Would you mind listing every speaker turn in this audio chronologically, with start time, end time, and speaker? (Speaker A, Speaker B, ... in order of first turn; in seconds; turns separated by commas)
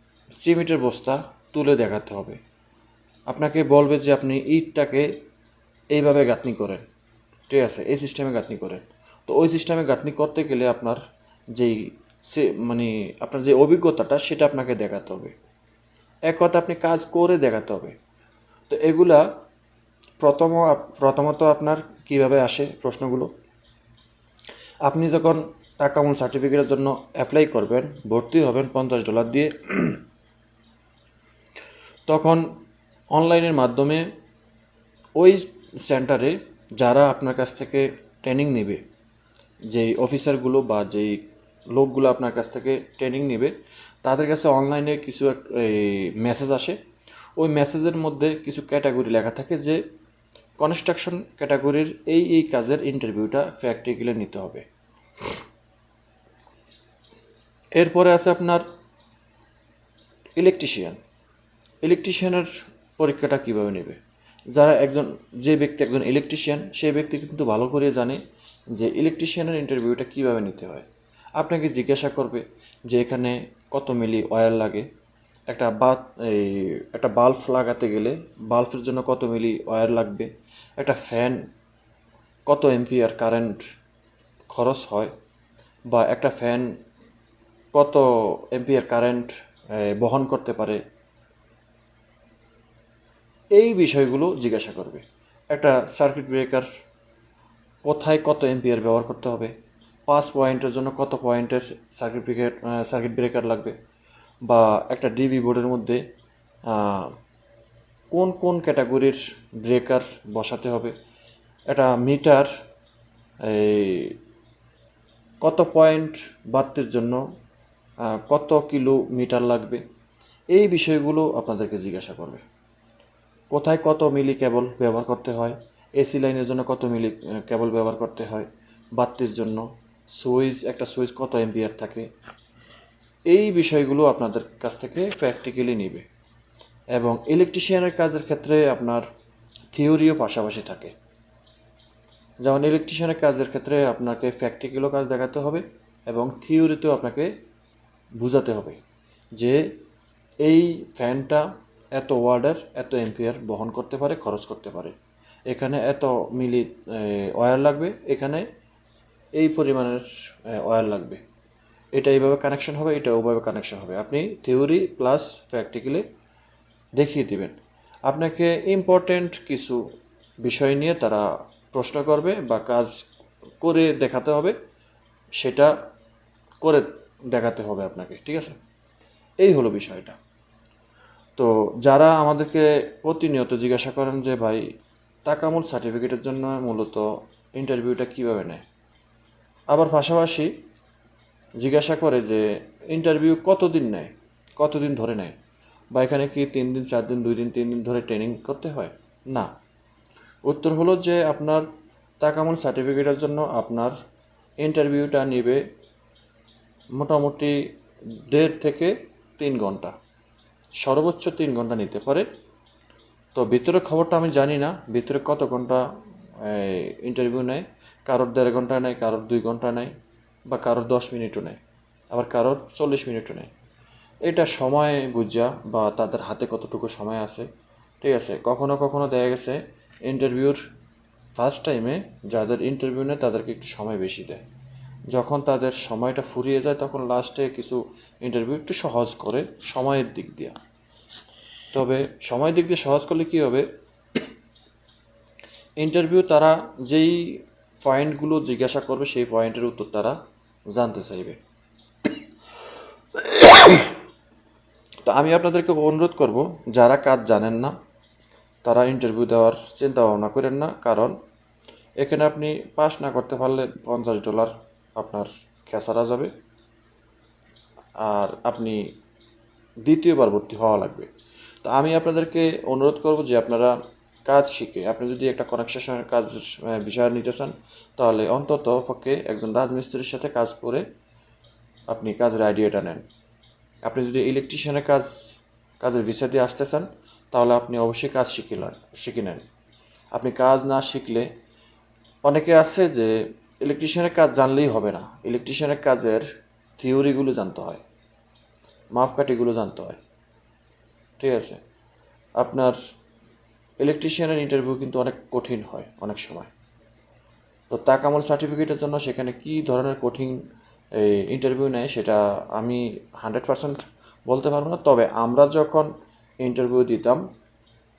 Speaker A: 0.4-2.4, Speaker A: 3.3-5.1, Speaker A: 5.9-6.8, Speaker A: 7.5-11.0, Speaker A: 11.6-15.3, Speaker A: 16.3-18.0, Speaker A: 18.7-19.2, Speaker A: 20.2-23.3, Speaker A: 24.9-30.0, Speaker A: 32.1-32.5, Speaker A: 33.1-34.1, Speaker A: 35.2-38.8, Speaker A: 39.7-46.8, Speaker A: 47.4-49.8, Speaker A: 50.6-54.6, Speaker A: 57.8-58.6, Speaker A: 60.4-61.0, Speaker A: 61.8-64.0, Speaker A: 64.5-68.2, Speaker A: 68.7-70.9, Speaker A: 71.4-74.9, Speaker A: 75.5-81.4, Speaker A: 82.5-83.6, Speaker A: 84.5-85.1, Speaker A: 85.9-86.7, Speaker A: 87.7-90.8, Speaker A: 93.5-96.7, Speaker A: 97.8-99.5, Speaker A: 100.1-103.8, Speaker A: 104.5-106.0, Speaker A: 106.7-107.2, Speaker A: 108.1-111.0, Speaker A: 111.7-112.5, Speaker A: 113.4-114.2, Speaker A: 115.4-117.2, Speaker A: 118.0-119.8, Speaker A: 120.5-122.4, Speaker A: 123.5-132.1, Speaker A: 133.3-136.1, Speaker A: 136.9-139.0, Speaker A: 139.7-140.9, Speaker A: 142.4-147.3, Speaker A: 148.2-148.8, Speaker A: 149.3-149.7, Speaker A: 150.4-154.9, Speaker A: 155.5-158.5, Speaker A: 159.3-161.2, Speaker A: 161.9-166.1, Speaker A: 166.9-169.8, Speaker A: 170.4-173.0, Speaker A: 173.6-174.6, Speaker A: 175.4-175.7, Speaker A: 176.6-178.6, Speaker A: 179.4-180.2, Speaker A: 181.4-184.7, Speaker A: 185.2-188.6, Speaker A: 189.7-190.5, Speaker A: 191.6-195.3, Speaker A: 195.9-199.5, Speaker A: 200.5-201.7, Speaker A: 202.2-203.9, Speaker A: 204.6-205.6, Speaker A: 206.9-207.6, Speaker A: 208.3-209.9, Speaker A: 210.8-212.3, Speaker A: 213.3-215.8, Speaker A: 216.4-219.9, Speaker A: 220.5-221.6, Speaker A: 222.1-223.5, Speaker A: 224.3-227.5, Speaker A: 228.0-230.6, Speaker A: 231.4-234.4, Speaker A: 235.1-240.6, Speaker A: 241.7-244.2, Speaker A: 245.8-250.2, Speaker A: 250.7-251.4, Speaker A: 253.2-253.9, Speaker A: 255.1-257.8, Speaker A: 258.6-261.2, Speaker A: 262.0-266.3, Speaker A: 268.0-268.9, Speaker A: 269.8-271.1, Speaker A: 271.6-273.8, Speaker A: 274.3-280.9, Speaker A: 281.9-283.1, Speaker A: 283.8-285.1, Speaker A: 285.8-289.4, Speaker A: 290.1-291.3, Speaker A: 292.2-296.2, Speaker A: 296.8-297.8, Speaker A: 298.9-300.0, Speaker A: 301.2-301.6, Speaker A: 302.4-302.8, Speaker A: 303.8-306.5, Speaker A: 307.7-310.4, Speaker A: 310.9-315.9, Speaker A: 316.4-317.2